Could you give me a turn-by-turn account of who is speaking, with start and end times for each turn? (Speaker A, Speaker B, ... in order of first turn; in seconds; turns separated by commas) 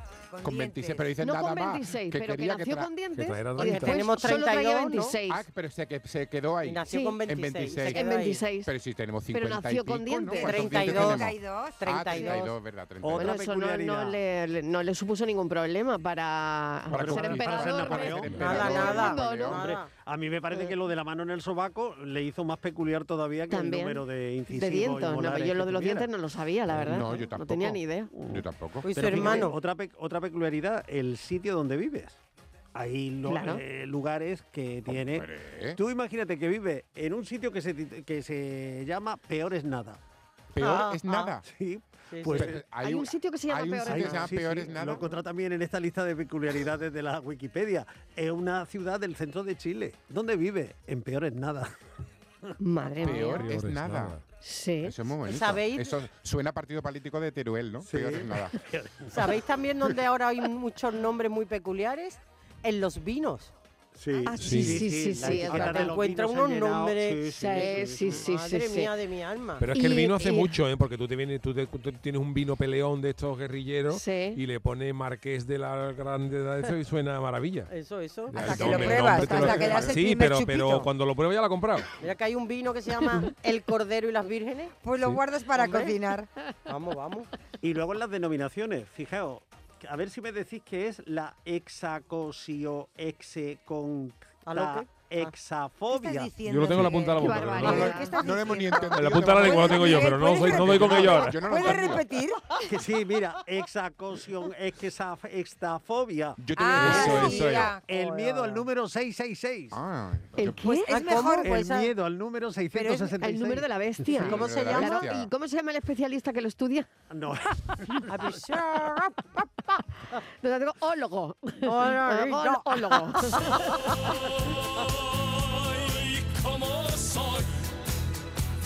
Speaker A: 0.3-1.1, Speaker B: 0.4-2.9, Speaker C: 1.2-5.5, Speaker D: 3.2-4.1, Speaker E: 3.6-5.2, Speaker B: 5.3-8.1, Speaker E: 6.6-8.4, Speaker C: 6.9-7.2, Speaker C: 7.8-8.7, Speaker B: 8.7-13.3, Speaker C: 9.3-10.7, Speaker E: 10.3-12.5, Speaker A: 10.4-12.4, Speaker F: 13.0-14.2, Speaker C: 13.2-19.7, Speaker F: 16.9-18.9, Speaker B: 17.0-19.6, Speaker E: 18.3-19.9, Speaker F: 19.6-26.1, Speaker C: 23.5-28.1, Speaker F: 26.8-27.2, Speaker B: 26.8-28.9, Speaker F: 28.1-32.2, Speaker E: 28.8-29.6, Speaker F: 32.8-40.0, Speaker C: 33.3-33.6, Speaker B: 34.9-35.8, Speaker B: 40.5-41.4, Speaker E: 40.6-41.4, Speaker F: 41.4-42.6, Speaker E: 42.1-42.5, Speaker B: 42.3-45.1, Speaker C: 42.8-44.3, Speaker F: 43.9-51.7, Speaker C: 52.6-53.4, Speaker B: 53.0-54.2, Speaker D: 53.1-54.2, Speaker C: 54.4-55.0, Speaker B: 54.8-58.6, Speaker E: 55.2-56.0, Speaker F: 57.8-59.4, Speaker E: 59.1-63.5, Speaker F: 64.0-68.3, Speaker C: 64.3-66.0, Speaker D: 64.4-64.8, Speaker E: 65.2-69.7, Speaker C: 67.3-68.9, Speaker D: 69.6-77.7, Speaker C: 69.7-70.6, Speaker C: 73.9-74.4, Speaker E: 77.7-80.0, Speaker D: 78.3-81.9, Speaker A: 78.4-80.9, Speaker E: 82.0-84.8, Speaker A: 84.8-86.3, Speaker E: 85.5-86.0, Speaker E: 86.7-87.3, Speaker F: 87.6-96.3, Speaker E: 94.5-95.3, Speaker A: 95.9-102.6, Speaker D: 96.4-98.0, Speaker C: 97.2-98.2, Speaker B: 97.6-102.1, Speaker D: 98.9-101.8, Speaker F: 102.7-106.4, Speaker B: 106.4-107.7, Speaker A: 106.5-108.6, Speaker D: 106.7-107.8, Speaker F: 107.8-109.8, Speaker B: 109.7-110.6, Speaker C: 110.4-111.0, Speaker A: 110.7-111.8, Speaker E: 110.9-111.9, Speaker F: 111.4-114.6, Speaker A: 112.7-113.2, Speaker C: 113.2-116.9, Speaker E: 114.2-115.1, Speaker B: 114.2-115.3, Speaker F: 117.1-118.3, Speaker E: 118.0-119.6, Speaker C: 120.4-123.6, Speaker E: 121.6-124.2